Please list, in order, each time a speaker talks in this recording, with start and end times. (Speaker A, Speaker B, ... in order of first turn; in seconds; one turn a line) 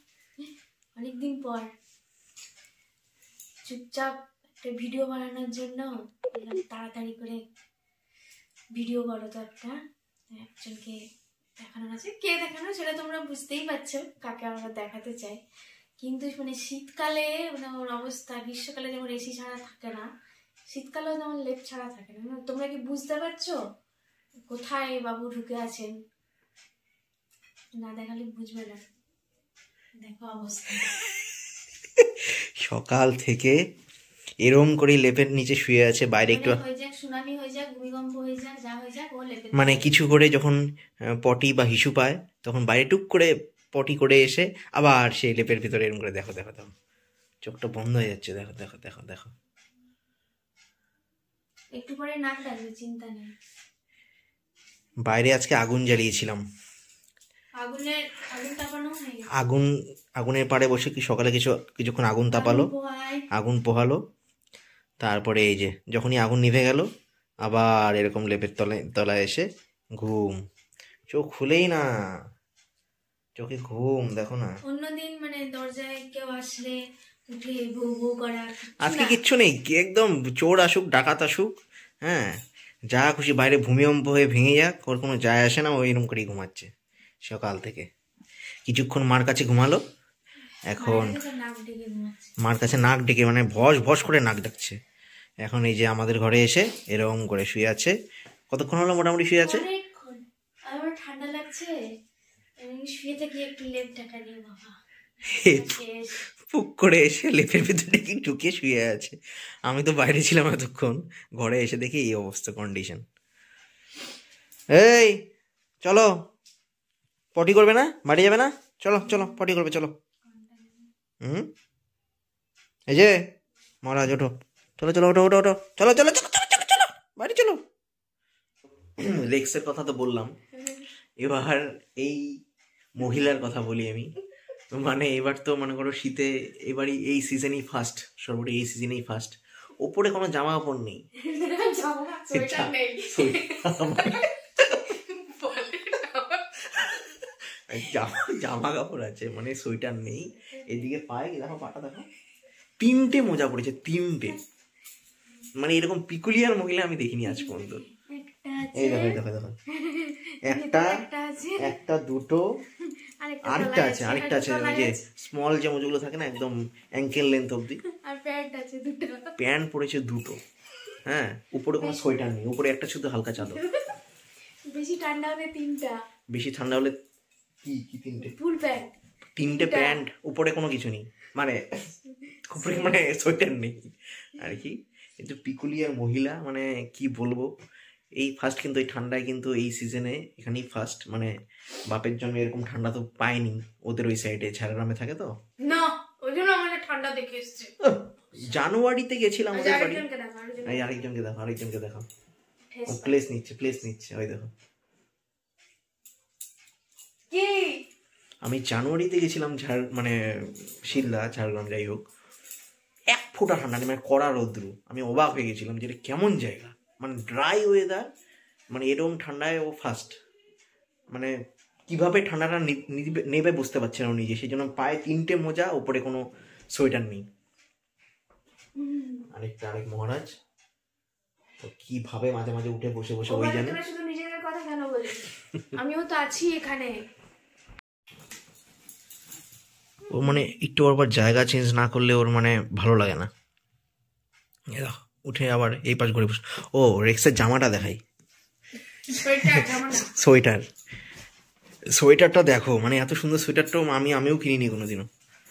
Speaker A: 0.4-1.7
Speaker A: 3.6-7.4
Speaker A: 8.7-9.8
Speaker A: 10.3-11.0
Speaker A: 11.6-15.4
Speaker A: 16.0-20.1
Speaker A: 20.7-23.6
Speaker A: 24.5-25.9
Speaker A: 27.8-28.8
Speaker A: 30.0-30.9
Speaker B: 32.0-33.6
Speaker B: 34.4-36.6
Speaker A: 36.3-40.0
Speaker B: 39.5-40.6
Speaker B: 41.1-46.7
Speaker B: 47.4-49.3
Speaker A: 51.7-53.3
Speaker B: 55.0-56.4
Speaker A: 57.6-59.3
Speaker B: 59.4-62.7
Speaker A: 62.3-63.2
Speaker B: 63.3-64.0
Speaker B: 65.0-66.9
Speaker B: 67.4-69.5
Speaker B: 70.0-70.4
Speaker B: 71.1-71.8
Speaker B: 73.4-74.5
Speaker A: 74.7-79.2
Speaker B: 78.8-81.5
Speaker B: 82.0-82.4
Speaker B: 82.9-86.7
Speaker B: 87.3-87.9
Speaker B: 88.7-89.8
Speaker B: 90.7-91.2
Speaker A: 90.8-92.3
Speaker B: 92.4-94.8
Speaker B: 95.4-97.9
Speaker B: 98.5-99.7
Speaker A: 99.4-101.7
Speaker A: 102.6-104.8
Speaker B: 105.3-105.7
Speaker A: 105.3-106.3
Speaker B: 106.4-113.0
Speaker B: 114.7-115.2
Speaker B: 115.8-116.1
Speaker B: 117.3-119.9
Speaker A: 119.0-119.4
Speaker A: 120.2-120.9
Speaker B: 121.2-121.5
Speaker B: 122.9-123.2
Speaker B: 123.8-127.6
Speaker B: 129.0-130.3
Speaker B: 131.2-132.4
Speaker B: 133.0-134.1
Speaker B: 134.7-141.0
Speaker A: 141.2-146.8
Speaker B: 142.3-144.8
Speaker B: 146.8-147.1
Speaker B: 147.7-152.1
Speaker A: 150.5-150.9
Speaker B: 152.8-154.4
Speaker B: 155.6-157.8
Speaker A: 157.2-161.8
Speaker B: 158.8-159.6
Speaker B: 160.4-161.0
Speaker B: 161.6-162.4
Speaker A: 162.8-165.0
Speaker B: 163.4-167.8
Speaker A: 167.9-169.3
Speaker B: 169.4-170.4
Speaker B: 171.1-173.6
Speaker A: 171.8-172.2
Speaker A: 173.4-174.0
Speaker A: 174.7-176.0
Speaker B: 176.3-176.9
Speaker B: 177.6-178.3
Speaker A: 178.2-178.9
Speaker B: 179.4-181.6
Speaker A: 179.5-180.0
Speaker A: 182.2-182.9
Speaker B: 182.5-187.5
Speaker B: 188.2-191.3
Speaker B: 191.9-195.3
Speaker A: 195.6-197.7
Speaker B: 197.8-200.1
Speaker A: 199.5-201.1
Speaker B: 200.7-202.1
Speaker A: 202.7-203.2
Speaker B: 202.9-204.5
Speaker A: 207.3-207.8
Speaker B: 208.4-212.0
Speaker B: 213.1-218.1
Speaker B: 218.7-220.2
Speaker B: 221.9-227.2
Speaker A: 228.8-229.3
Speaker B: 229.3-230.3
Speaker B: 231.6-233.8
Speaker A: 233.3-237.0
Speaker B: 240.1-243.3
Speaker B: 244.7-248.0
Speaker A: 249.1-250.1
Speaker B: 249.4-250.6
Speaker B: 252.0-255.1